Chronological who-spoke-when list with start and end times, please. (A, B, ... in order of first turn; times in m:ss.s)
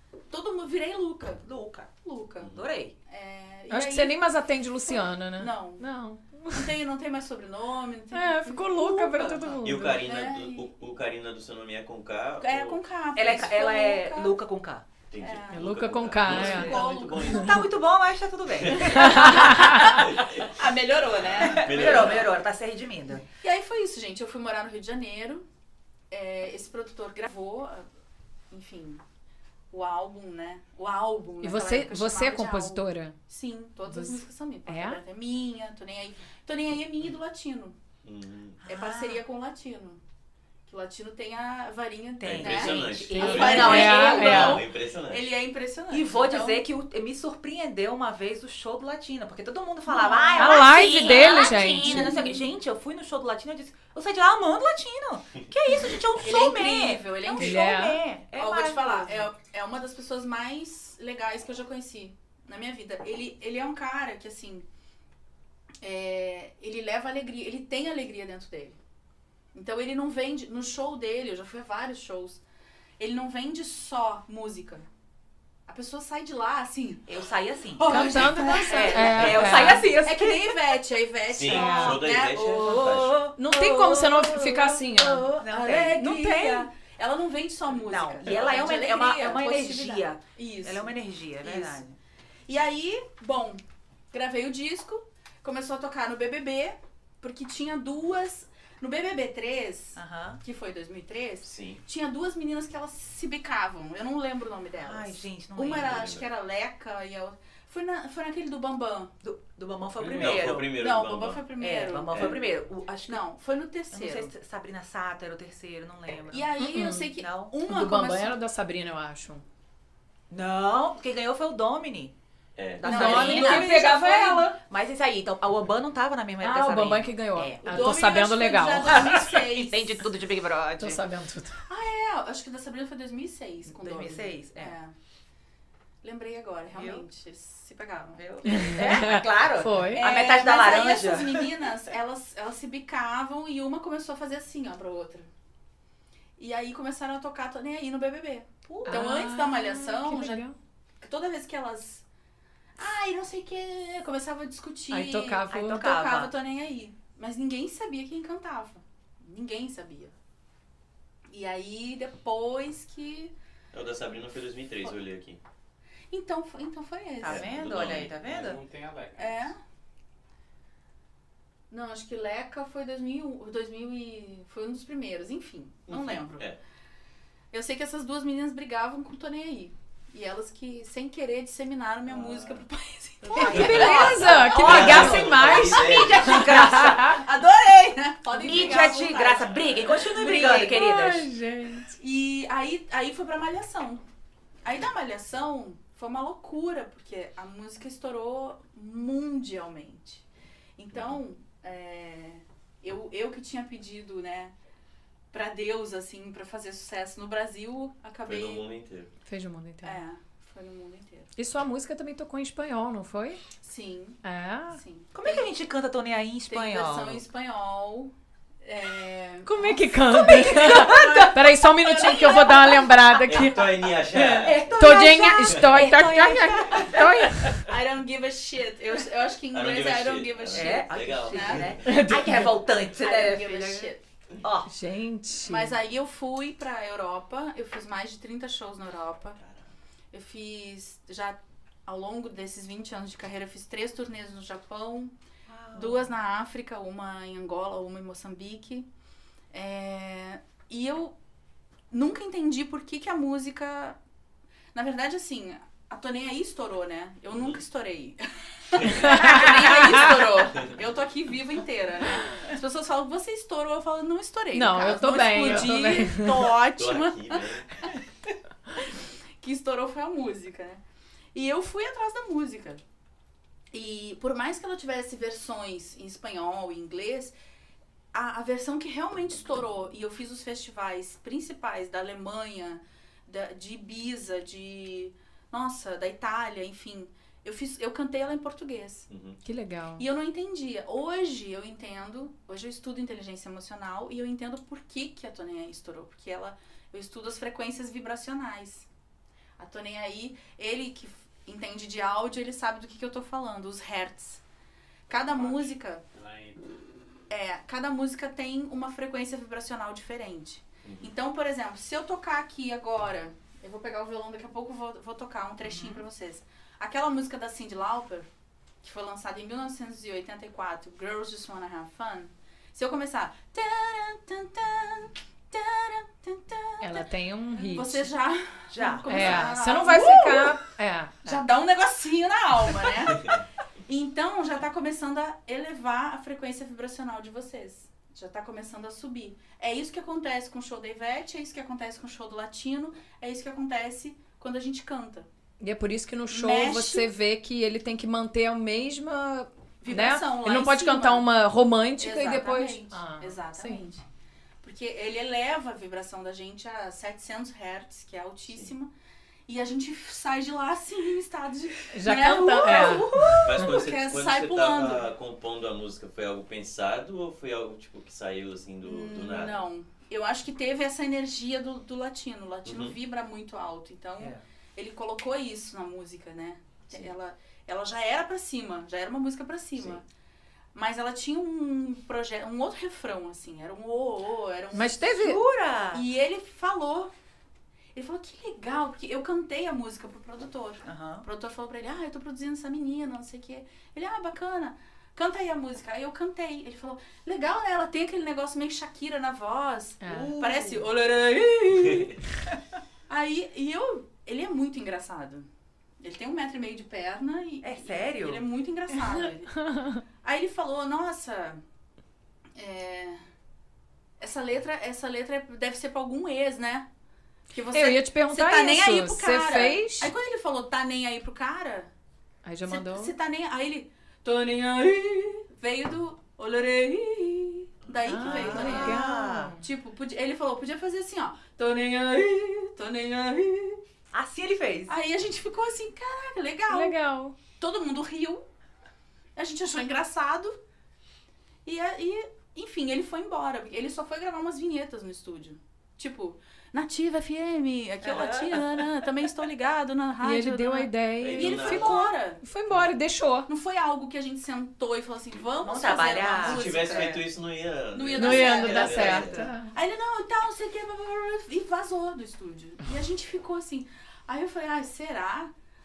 0:00.3-0:01.4 A
0:01.4-0:01.9 B
0:02.0-0:02.5 A
0:02.4-0:02.7 C
0:02.4-0:03.0 B
0:03.1-0:04.2 A
0:03.7-0:06.8 D
0:04.9-0:05.9 A
0:06.5-0:10.7 A
0:08.1-0:10.0 D
0:09.6-0:12.8 C
0:12.4-0:14.4 A
0:13.2-0:14.9 B
0:15.1-0:17.8 C
0:15.2-0:17.5 A
0:15.5-0:16.7 D
0:16.3-0:19.9 B
0:18.5-0:22.4 C
0:19.0-0:20.0 D
0:19.0-0:22.3 A
0:21.4-0:23.2 B
0:23.4-0:25.4 A
0:26.1-0:27.9 A
0:28.5-0:29.0 A
0:29.7-0:37.8 A
0:31.4-0:33.2 D
0:33.9-0:35.0 D
0:38.0-0:38.6 C
0:38.6-0:39.2 B
0:38.7-0:40.0 A
0:40.7-0:46.6 A
0:42.2-0:44.6 B
0:42.2-0:45.3 C
0:43.2-0:44.6 D
0:45.9-0:59.3 B
0:49.9-0:52.4 A
0:50.4-0:52.4 D
0:56.2-0:57.7 A
0:57.4-0:58.0 D
0:58.4-1:04.7 A
1:05.8-1:08.8 A
1:09.5-1:12.4 A
1:13.0-1:14.9 A
1:15.7-1:17.1 A
1:17.1-1:20.6 B
1:17.7-1:31.8 A
1:17.9-1:19.9 D
1:21.3-1:23.2 C
1:21.5-1:22.0 D
1:22.3-1:26.7 B
1:23.4-1:25.4 D
1:27.8-1:32.0 B
1:32.5-1:49.1 A
1:40.0-1:40.4 B
1:41.4-1:41.8 C
1:44.8-1:46.1 B
1:45.7-1:46.3 C
1:49.2-1:50.7 B
1:50.0-1:50.5 E
1:50.2-1:51.5 C
1:50.6-1:52.4 A
1:51.6-1:53.2 B
1:52.1-1:52.4 C
1:53.1-1:54.3 A
1:53.9-1:56.5 B
1:56.3-1:58.4 A
1:56.6-1:57.1 D
1:57.2-1:57.5 B
1:57.6-1:59.4 D
2:00.3-2:02.1 B
2:02.6-2:02.9 C
2:02.8-2:03.8 B
2:02.8-2:04.6 D
2:02.8-2:04.5 A
2:04.7-2:07.9 B
2:06.4-2:09.2 D
2:07.6-2:10.0 A
2:09.0-2:11.0 B
2:10.8-2:11.6 D
2:11.7-2:14.9 A
2:13.7-2:14.7 B
2:16.0-2:19.0 A
2:16.7-2:17.1 B
2:18.2-2:21.7 B
2:18.5-2:20.1 D
2:19.9-2:25.3 A
2:26.4-2:30.4 A
2:28.7-2:29.2 B
2:28.9-2:30.6 D
2:31.0-2:32.0 A
2:32.8-2:40.1 A
2:34.9-2:35.9 D
2:35.5-2:36.3 B
2:41.3-2:43.3 A
2:43.7-2:45.4 C
2:46.1-2:47.5 A
2:47.2-2:48.6 B
2:47.3-2:48.2 C
2:47.8-2:49.5 E
2:49.2-2:49.6 A
2:51.7-2:56.5 A
2:55.9-2:56.6 C
2:57.5-3:10.9 A
3:02.1-3:02.6 C
3:03.3-3:07.2 B
3:03.4-3:07.2 D
3:03.4-3:06.4 C
3:08.3-3:11.3 B
3:10.6-3:11.9 D
3:11.9-3:14.0 A
3:14.6-3:20.2 A
3:20.8-3:24.5 A
3:20.9-3:21.2 C
3:25.3-3:28.7 A
3:28.2-3:29.1 C
3:29.3-3:30.0 D
3:29.8-3:31.3 A
3:31.4-3:33.4 D
3:33.6-3:35.5 A
3:34.2-3:34.8 D
3:35.1-3:37.2 B
3:36.5-3:38.1 A
3:38.6-3:43.2 A
3:39.4-3:47.6 D
3:40.2-3:41.3 B
3:43.2-3:44.8 C
3:44.4-3:47.5 B
3:44.8-3:47.0 A
3:47.6-3:51.8 A
3:49.5-3:52.0 C
3:50.5-3:54.7 B
3:51.8-3:52.4 D
3:53.0-3:54.0 A
3:54.7-3:55.8 D
3:55.4-3:59.4 A
3:59.4-3:59.6 C
4:00.1-4:05.1 A
4:05.5-4:06.1 B
4:05.8-4:08.9 A
4:09.5-4:11.2 A
4:11.9-4:14.0 A
4:14.7-4:28.0 A
4:17.3-4:17.6 C
4:18.8-4:19.1 C
4:19.0-4:20.3 D
4:24.5-4:26.5 D
4:26.8-4:27.8 C
4:29.4-4:30.8 A
4:31.3-4:32.8 A
4:33.7-4:37.4 A
4:38.1-4:49.1 A
4:49.1-4:49.4 C
4:49.4-4:50.0 D
4:50.0-4:58.9 A
4:59.6-5:04.4 A
5:05.1-5:06.0 A
5:05.1-5:06.7 E
5:07.3-5:18.3 A
5:10.8-5:11.1 C
5:15.6-5:16.0 B
5:18.8-5:30.6 A
5:26.8-5:28.1 D
5:28.7-5:29.5 B
5:29.1-5:31.4 D
5:31.2-5:33.4 A
5:33.9-5:45.3 A
5:45.6-5:53.9 D
5:46.3-5:47.1 A
5:49.8-5:51.3 A
5:52.0-5:54.0 A
5:54.6-5:58.9 A
5:59.5-6:05.1 A
6:01.9-6:03.7 D
6:03.4-6:09.6 C
6:08.8-6:20.0 A
6:12.6-6:13.0 C
6:20.8-6:25.3 A
6:24.7-6:25.4 D
6:25.2-6:26.0 B
6:25.9-6:27.1 A
6:28.0-6:42.2 A
6:30.8-6:31.2 B
6:40.0-6:40.3 D
6:40.1-6:40.9 B
6:43.1-6:45.5 A
6:46.0-6:49.6 A
6:47.6-6:48.4 B
6:49.1-6:50.0 D
6:50.2-6:51.6 A
6:52.6-6:53.2 A
6:54.2-6:56.9 A
6:57.5-7:01.9 A
6:57.7-7:00.1 D
7:02.4-7:03.1 D
7:02.6-7:09.0 A
7:08.1-7:09.6 D
7:08.2-7:09.5 B
7:09.6-7:13.8 A
7:14.1-7:14.9 B
7:14.9-7:18.4 A
7:16.7-7:17.4 D
7:19.4-7:20.6 A
7:21.6-7:32.4 A
7:28.0-7:28.9 B
7:30.2-7:33.5 D
7:31.2-7:32.0 C
7:33.5-7:37.2 A
7:35.6-7:37.2 B
7:36.4-7:39.4 C
7:37.9-7:45.5 A
7:38.2-7:39.7 D
7:39.0-7:39.5 B